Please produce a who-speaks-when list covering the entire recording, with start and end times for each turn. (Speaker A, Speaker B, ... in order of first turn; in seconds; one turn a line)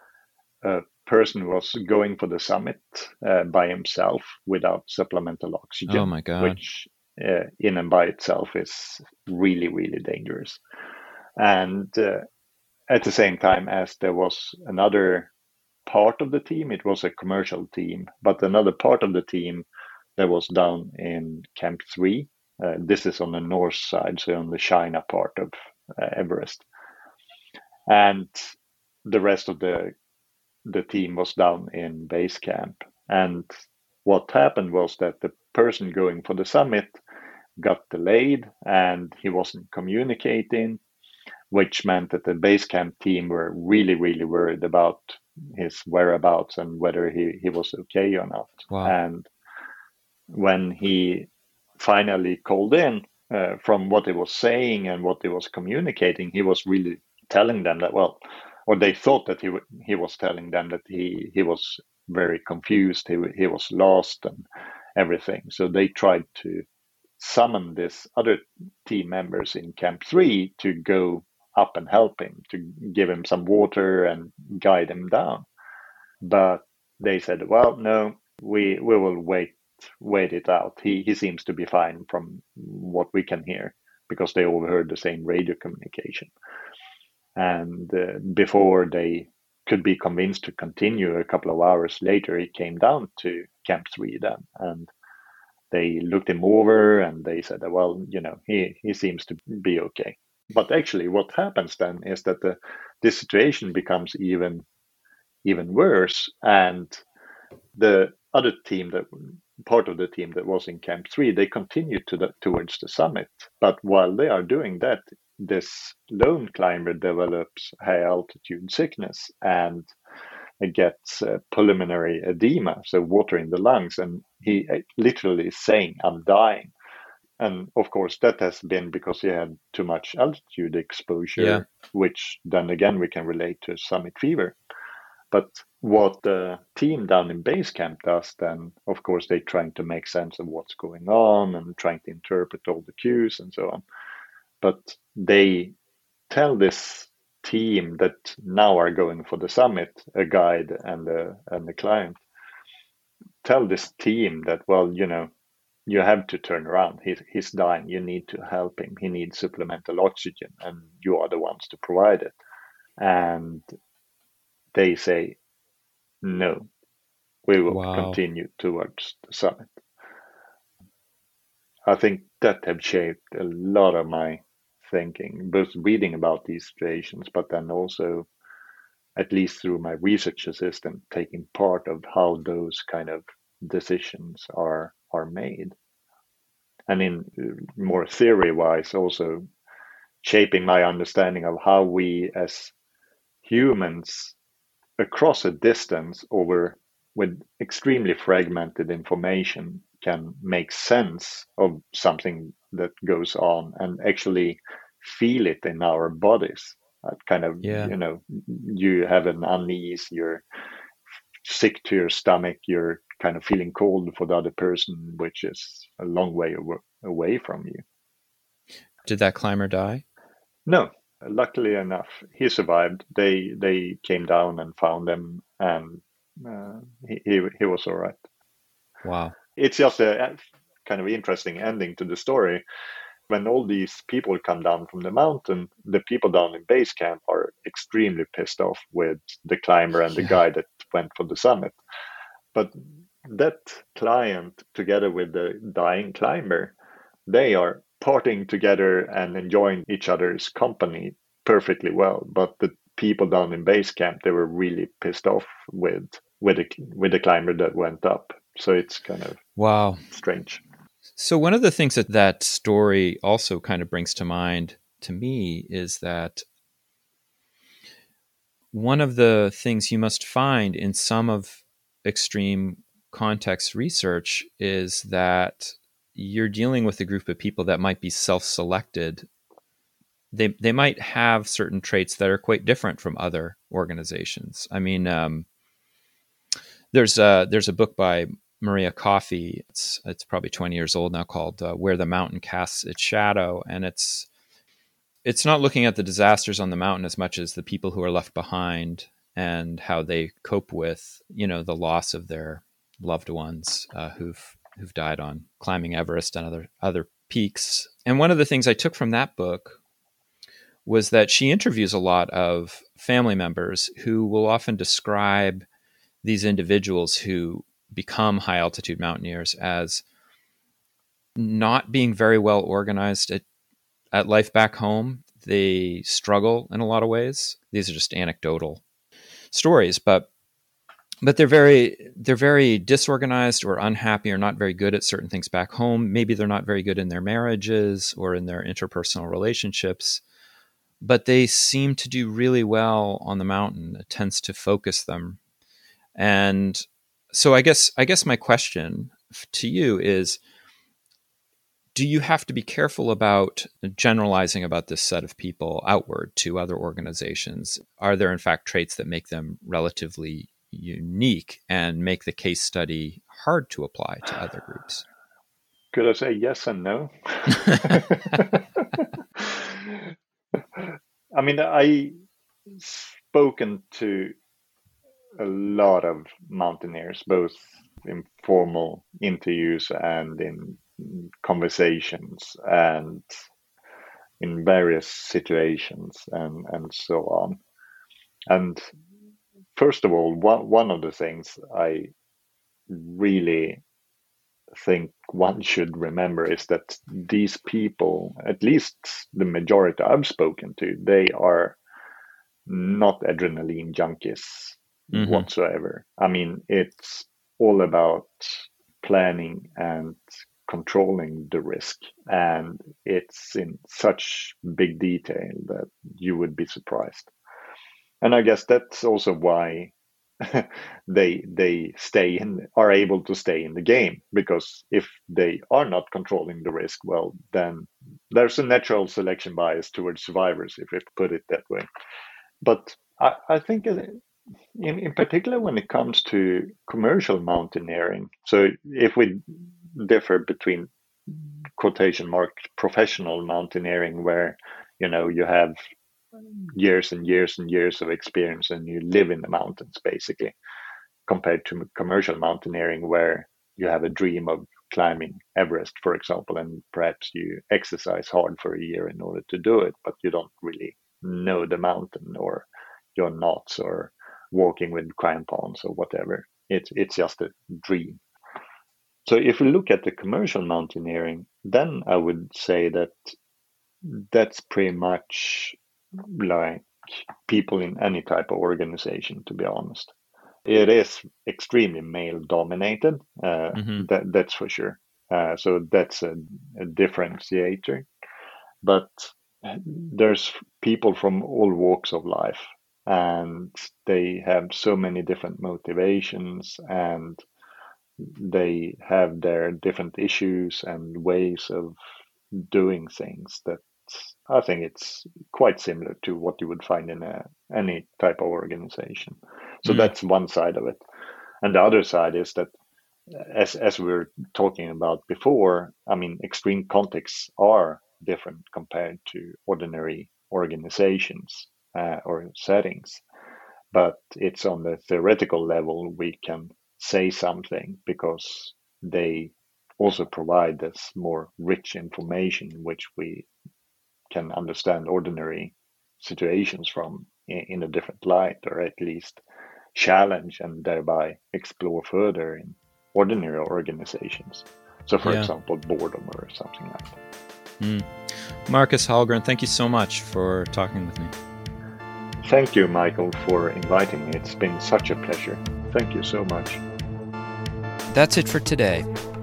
Speaker A: 0.6-10.6
Speaker B: 5.9-6.6
Speaker A: 11.4-12.2
Speaker A: 12.9-15.3
Speaker A: 15.9-19.7
Speaker A: 20.2-26.6
Speaker A: 27.9-28.5
Speaker A: 29.1-29.9
Speaker A: 30.7-33.5
Speaker A: 34.0-37.0
Speaker A: 37.6-40.8
Speaker A: 41.5-49.3
Speaker A: 50.3-51.3
Speaker A: 51.8-66.7
Speaker A: 67.2-75.5
Speaker A: 76.2-86.3
Speaker A: 87.4-94.9
Speaker A: 95.7-104.7
Speaker A: 105.5-107.0
Speaker A: 107.8-119.9
Speaker A: 120.6-126.7
Speaker A: 127.4-134.6
Speaker B: 131.4-131.6
Speaker A: 135.3-143.8
Speaker A: 144.6-145.8
Speaker A: 146.3-152.2
Speaker A: 153.4-155.3
Speaker A: 155.9-162.4
Speaker A: 163.0-163.7
Speaker A: 164.7-165.4
Speaker A: 166.2-166.7
Speaker A: 167.5-169.7
Speaker B: 167.7-168.2
Speaker A: 171.9-178.3
Speaker A: 179.2-185.8
Speaker A: 186.9-189.5
Speaker A: 190.2-192.7
Speaker A: 193.4-194.4
Speaker A: 195.0-210.4
Speaker B: 207.6-207.9
Speaker A: 211.4-217.8
Speaker B: 219.1-220.0
Speaker A: 220.7-228.2
Speaker B: 229.0-229.3
Speaker A: 229.6-232.6
Speaker A: 233.3-241.8
Speaker A: 242.6-246.8
Speaker A: 247.3-259.4
Speaker B: 259.6-260.0
Speaker A: 260.1-260.6
Speaker B: 261.2-266.5
Speaker B: 268.7-279.3
Speaker B: 280.3-285.5
Speaker B: 286.9-294.3
Speaker B: 295.2-309.8
Speaker B: 310.9-315.7
Speaker B: 316.2-320.0
Speaker B: 321.4-323.4
Speaker B: 324.1-328.8
Speaker B: 329.5-330.3
Speaker B: 331.2-340.2
Speaker B: 341.0-345.4
Speaker B: 346.1-350.4
Speaker B: 351.9-365.0
Speaker A: 365.9-370.1
Speaker A: 370.8-372.1
Speaker A: 372.7-374.3
Speaker A: 375.4-383.2
Speaker A: 384.4-387.6
Speaker A: 388.5-388.9
Speaker A: 389.8-392.1
Speaker A: 392.9-393.8
Speaker A: 394.8-401.8
Speaker A: 402.7-417.3
Speaker B: 405.1-405.5
Speaker A: 418.2-431.9
Speaker A: 432.6-434.2
Speaker A: 434.8-445.8
Speaker A: 446.5-450.6
Speaker A: 451.3-468.2
Speaker A: 469.3-473.4
Speaker A: 474.0-480.1
Speaker A: 480.7-488.1
Speaker B: 483.8-484.1
Speaker A: 488.8-497.4
Speaker A: 498.2-502.0
Speaker A: 502.5-511.0
Speaker B: 509.9-510.1
Speaker A: 511.6-512.7
Speaker A: 513.3-523.2
Speaker A: 523.9-533.5
Speaker A: 534.3-539.4
Speaker A: 540.0-547.2
Speaker B: 545.2-545.5
Speaker B: 547.8-551.3
Speaker A: 552.4-556.8
Speaker B: 558.1-559.1